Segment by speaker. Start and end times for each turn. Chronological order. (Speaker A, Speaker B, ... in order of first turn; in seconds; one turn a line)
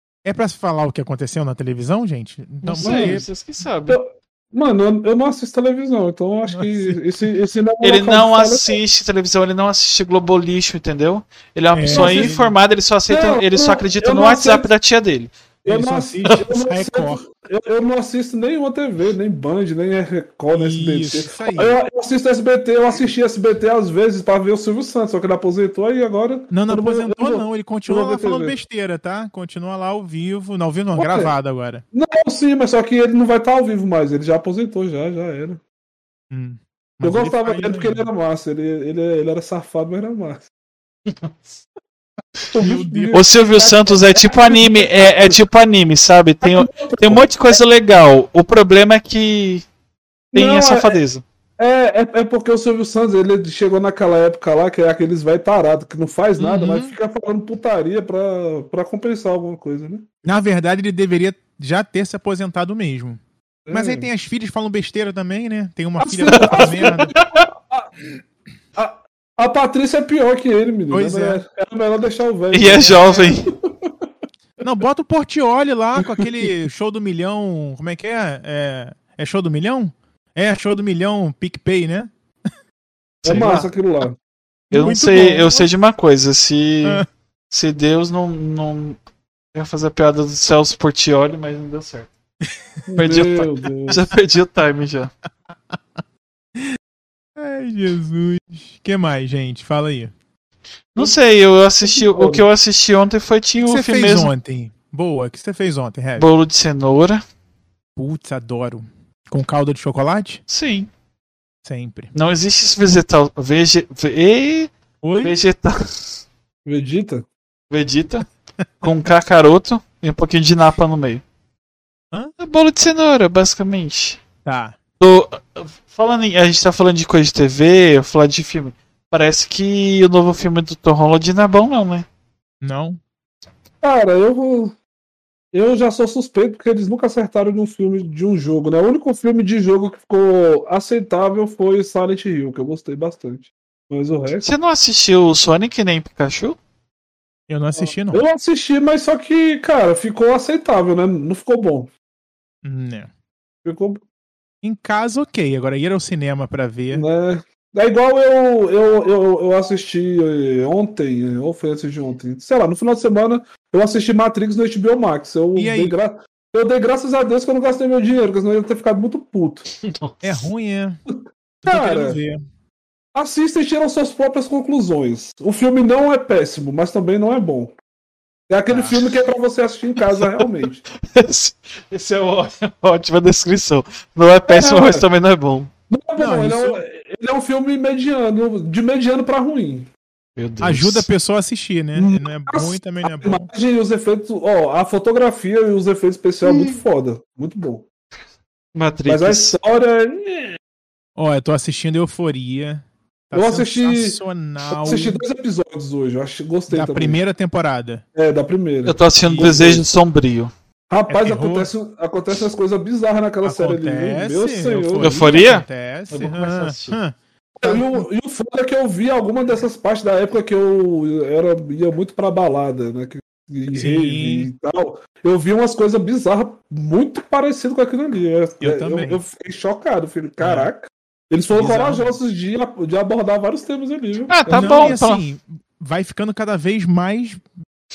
Speaker A: 0.2-3.2
Speaker B: 2.6-4.0
Speaker C: 2.8-3.2
Speaker C: 3.9-8.8
Speaker A: 6.5-7.0
Speaker B: 7.8-15.3
Speaker A: 11.7-12.6
Speaker C: 11.9-12.3
Speaker C: 13.1-14.7
Speaker A: 15.6-17.2
Speaker C: 15.6-28.6
Speaker A: 20.5-21.8
Speaker A: 26.5-31.8
Speaker C: 30.9-31.4
Speaker C: 31.9-35.6
Speaker A: 36.3-38.1
Speaker C: 37.0-40.5
Speaker B: 41.1-41.4
Speaker C: 42.5-45.4
Speaker A: 42.6-43.2
Speaker B: 43.1-49.6
Speaker C: 46.4-47.6
Speaker B: 50.3-51.2
Speaker C: 50.3-51.0
Speaker C: 51.6-60.1
Speaker A: 56.4-56.9
Speaker A: 60.2-67.1
Speaker C: 63.6-64.1
Speaker C: 66.0-67.9
Speaker B: 66.3-67.5
Speaker C: 68.7-73.9
Speaker A: 70.9-71.4
Speaker B: 72.5-73.5
Speaker A: 72.7-73.3
Speaker A: 74.6-82.1
Speaker C: 83.2-84.2
Speaker B: 83.2-83.6
Speaker A: 83.2-83.7
Speaker A: 84.7-85.7
Speaker B: 84.7-89.0
Speaker B: 89.5-92.1
Speaker C: 92.9-94.0
Speaker B: 93.0-95.1
Speaker A: 97.4-100.1
Speaker B: 100.9-104.3
Speaker C: 101.8-102.4
Speaker A: 103.7-106.3
Speaker B: 106.2-107.2
Speaker A: 108.0-110.4
Speaker B: 110.5-110.9
Speaker A: 111.6-112.1
Speaker B: 112.1-116.0
Speaker A: 115.0-115.3
Speaker C: 116.7-117.3
Speaker B: 117.7-118.2
Speaker B: 118.8-121.2
Speaker B: 122.4-124.2
Speaker A: 124.4-124.8
Speaker B: 125.0-132.1
Speaker A: 132.6-133.0
Speaker C: 133.8-134.7
Speaker C: 135.5-144.4
Speaker B: 144.4-146.6
Speaker A: 147.5-148.2
Speaker C: 147.7-151.9
Speaker A: 152.6-153.1
Speaker C: 153.6-154.0
Speaker A: 154.6-157.1
Speaker C: 156.9-169.7
Speaker A: 165.6-165.9
Speaker B: 169.8-170.4
Speaker A: 170.2-171.0
Speaker A: 171.6-172.4
Speaker C: 171.6-172.2
Speaker C: 173.1-177.7
Speaker C: 178.5-180.8
Speaker A: 178.7-178.9
Speaker B: 181.0-185.7
Speaker C: 184.5-185.1
Speaker C: 185.9-189.9
Speaker A: 186.2-186.8
Speaker B: 190.4-191.1
Speaker A: 190.6-193.5
Speaker C: 191.9-197.8
Speaker B: 196.4-196.8
Speaker B: 198.7-199.6
Speaker C: 199.1-200.6
Speaker A: 201.2-205.2
Speaker C: 203.3-207.2
Speaker A: 206.7-208.0
Speaker C: 208.1-209.8
Speaker B: 208.8-210.5
Speaker A: 209.2-209.5
Speaker C: 210.9-215.4
Speaker A: 211.1-211.7
Speaker A: 213.4-218.0
Speaker B: 215.0-217.0
Speaker C: 217.6-235.0
Speaker A: 223.7-224.5
Speaker A: 228.6-229.2
Speaker A: 230.4-230.7
Speaker A: 231.5-232.1
Speaker B: 234.3-235.2
Speaker A: 234.5-237.4